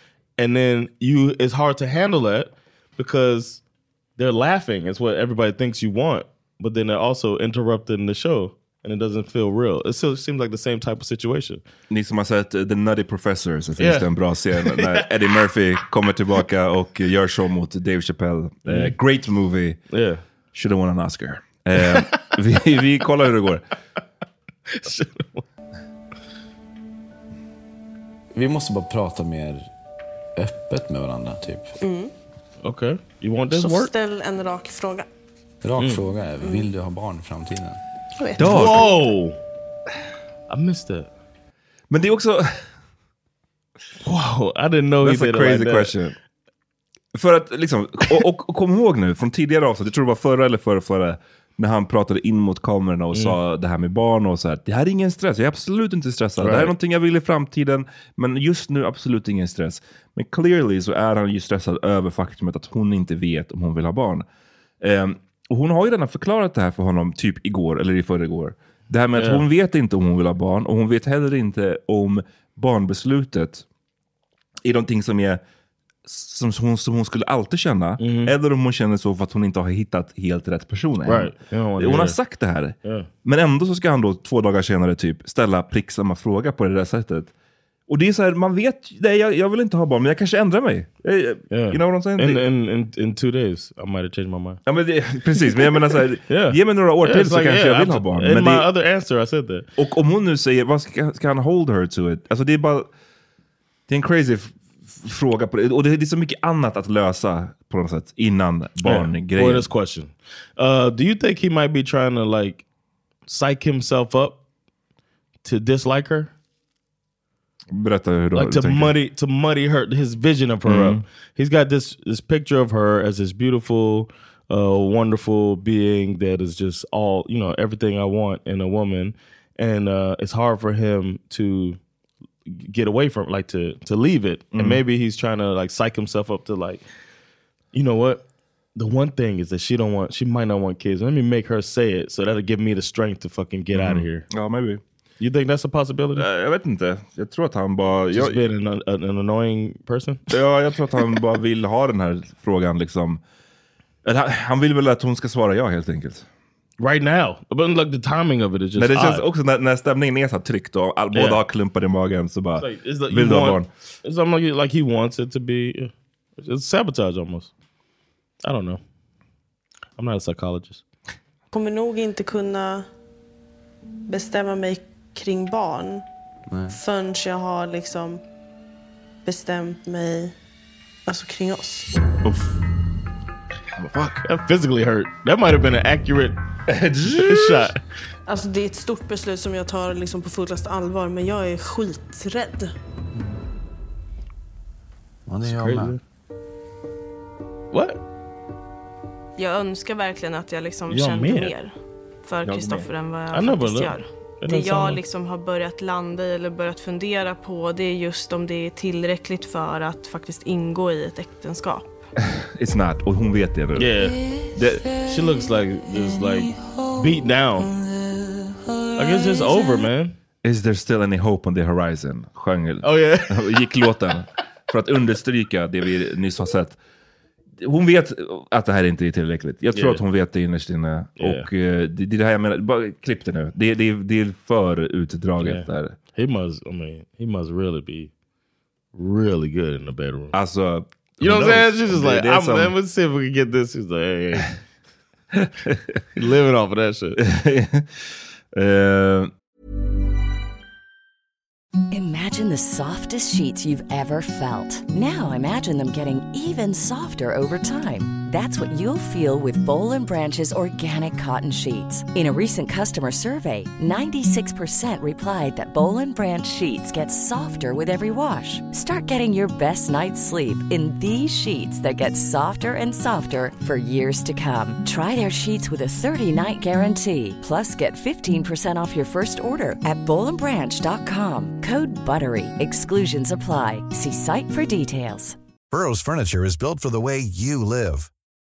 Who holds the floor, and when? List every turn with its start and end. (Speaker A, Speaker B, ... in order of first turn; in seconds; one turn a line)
Speaker A: 0.4-3.6
Speaker A: 4.2-11.6
Speaker B: 11.9-19.8
Speaker A: 13.8-15.3
Speaker A: 18.7-18.9
Speaker A: 19.9-20.2
Speaker B: 20.5-23.6
Speaker A: 21.8-22.2
Speaker A: 24.7-25.4
Speaker C: 28.4-29.6
Speaker C: 30.4-31.6
Speaker D: 31.8-32.1
Speaker A: 32.6-33.9
Speaker D: 33.5-35.1
Speaker A: 35.8-36.0
Speaker C: 35.9-37.6
Speaker D: 36.4-36.7
Speaker D: 38.2-38.9
Speaker B: 38.4-38.9
Speaker A: 38.4-39.4
Speaker A: 40.5-41.1
Speaker B: 41.9-42.5
Speaker A: 44.0-45.9
Speaker B: 45.0-46.1
Speaker B: 47.1-64.2
Speaker A: 56.4-56.7
Speaker B: 64.8-73.7
Speaker A: 69.2-69.5
Speaker B: 74.7-75.4
Speaker B: 76.1-87.3
Speaker A: 78.0-78.3
Speaker A: 81.0-82.2
Speaker A: 82.8-83.1
Speaker B: 87.9-92.4
Speaker A: 91.5-94.6
Speaker B: 94.7-98.7
Speaker A: 96.3-99.7
Speaker B: 99.8-102.9
Speaker B: 103.9-109.7
Speaker A: 108.8-112.6
Speaker A: 113.3-114.4
Speaker A: 115.4-116.3
Speaker B: 117.7-118.9
Speaker A: 118.3-131.8
Speaker B: 120.7-121.0
Speaker A: 132.5-136.8
Speaker B: 134.5-134.8
Speaker A: 137.7-138.2
Speaker A: 138.8-144.3
Speaker B: 143.7-144.8
Speaker A: 145.2-146.3
Speaker B: 146.2-148.5
Speaker A: 148.1-150.3
Speaker B: 150.3-153.2
Speaker B: 154.1-156.3
Speaker A: 156.8-159.2
Speaker B: 158.8-163.7
Speaker A: 161.1-161.4
Speaker A: 162.6-167.5
Speaker A: 168.4-168.8
Speaker A: 170.0-170.8
Speaker D: 171.5-172.9
Speaker D: 174.1-176.1
Speaker D: 176.7-178.2
Speaker D: 179.2-180.3
Speaker D: 181.1-181.9
Speaker B: 183.8-184.2
Speaker A: 184.2-186.4
Speaker B: 186.7-187.7
Speaker A: 187.1-187.8
Speaker D: 188.3-192.7
Speaker A: 195.4-196.0
Speaker A: 197.7-198.0
Speaker D: 199.4-201.7
Speaker A: 200.9-201.5
Speaker D: 202.2-211.9
Speaker B: 202.4-202.9
Speaker A: 203.3-205.0
Speaker B: 212.2-214.0
Speaker A: 213.8-214.2
Speaker B: 214.5-214.9
Speaker A: 214.9-217.7
Speaker A: 219.0-220.2
Speaker B: 220.4-226.8
Speaker A: 222.8-223.7
Speaker B: 227.6-235.9
Speaker A: 229.7-230.0
Speaker A: 231.2-231.5
Speaker A: 235.4-238.1
Speaker A: 238.9-240.3
Speaker B: 240.3-242.7
Speaker A: 241.2-244.5
Speaker B: 245.3-246.0
Speaker A: 246.2-247.2
Speaker B: 247.2-249.3
Speaker E: 251.9-285.4
Speaker F: 285.7-288.1